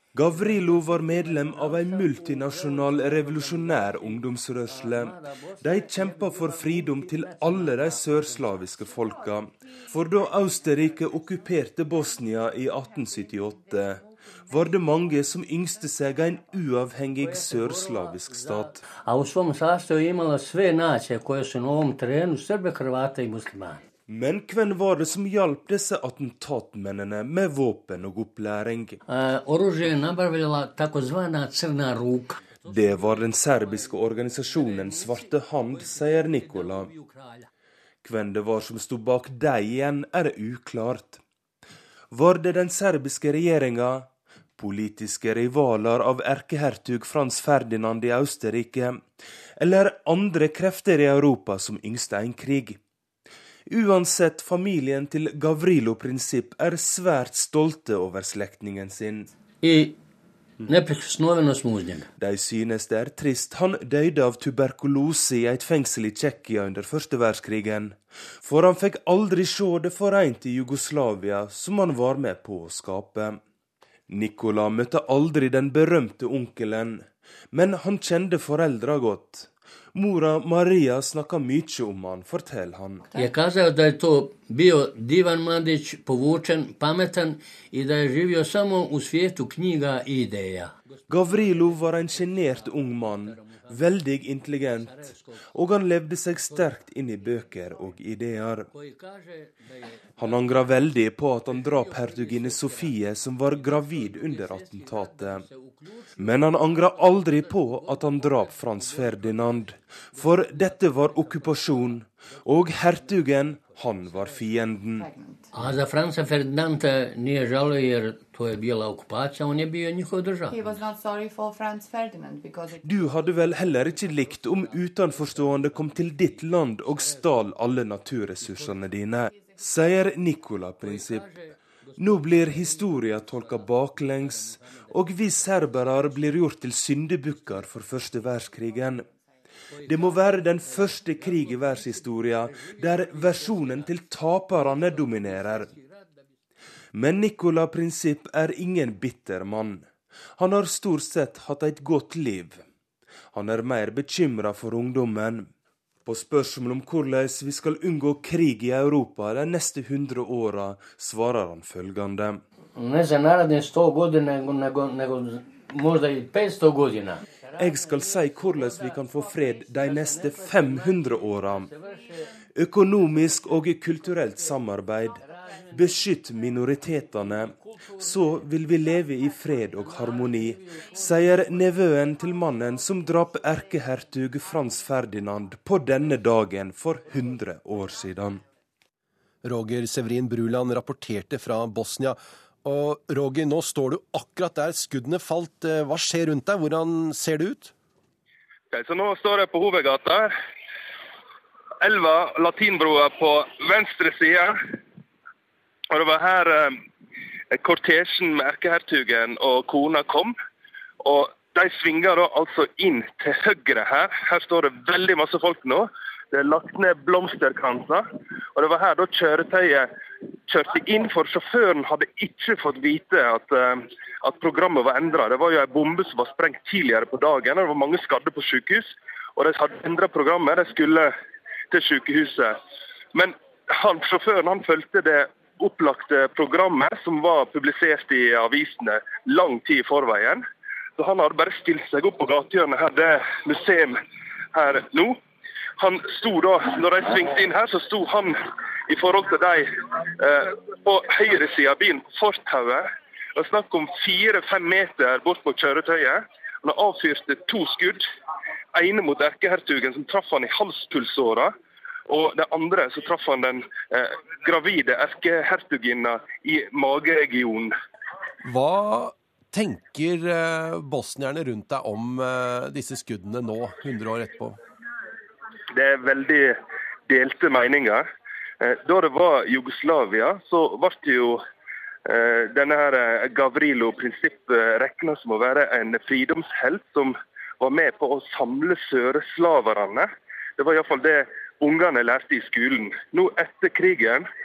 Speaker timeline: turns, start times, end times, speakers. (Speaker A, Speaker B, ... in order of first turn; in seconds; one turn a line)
Speaker A: 0.1-18.8
Speaker B: 17.2-23.8
Speaker A: 24.1-29.0
Speaker B: 29.1-32.4
Speaker A: 32.6-36.9
Speaker A: 38.0-41.2
Speaker A: 42.1-49.0
Speaker A: 49.6-52.8
Speaker A: 53.7-59.3
Speaker B: 59.6-60.0
Speaker B: 60.6-62.1
Speaker A: 62.2-73.4
Speaker A: 74.1-83.1
Speaker B: 83.2-90.7
Speaker A: 91.1-98.7
Speaker A: 100.2-105.5
Speaker A: 106.2-115.1
Speaker C: 115.0-115.5
Speaker B: 115.5-120.6
Speaker C: 120.5-123.1
Speaker A: 122.8-139.1
Speaker A: 139.8-145.7
Speaker A: 146.9-149.9
Speaker A: 150.4-152.6
Speaker A: 153.3-155.5
Speaker A: 156.1-162.4
Speaker B: 162.8-167.2
Speaker A: 167.6-171.7
Speaker A: 172.6-188.4
Speaker D: 189.4-197.7
Speaker E: 198.7-200.3
Speaker E: 201.8-204.6
Speaker E: 205.9-206.8
Speaker E: 207.5-210.3
Speaker E: 211.0-218.1
Speaker E: 218.6-219.9
Speaker E: 220.5-231.1
Speaker E: 231.7-232.6
Speaker E: 233.1-240.4
Speaker E: 241.0-244.0
Speaker E: 244.5-245.2
Speaker E: 245.8-258.0
Speaker E: 258.7-261.5
Speaker E: 262.1-267.7
Speaker D: 268.4-274.6
Speaker E: 275.7-276.6
Speaker E: 277.1-278.0
Speaker E: 278.6-281.4
Speaker E: 282.1-294.2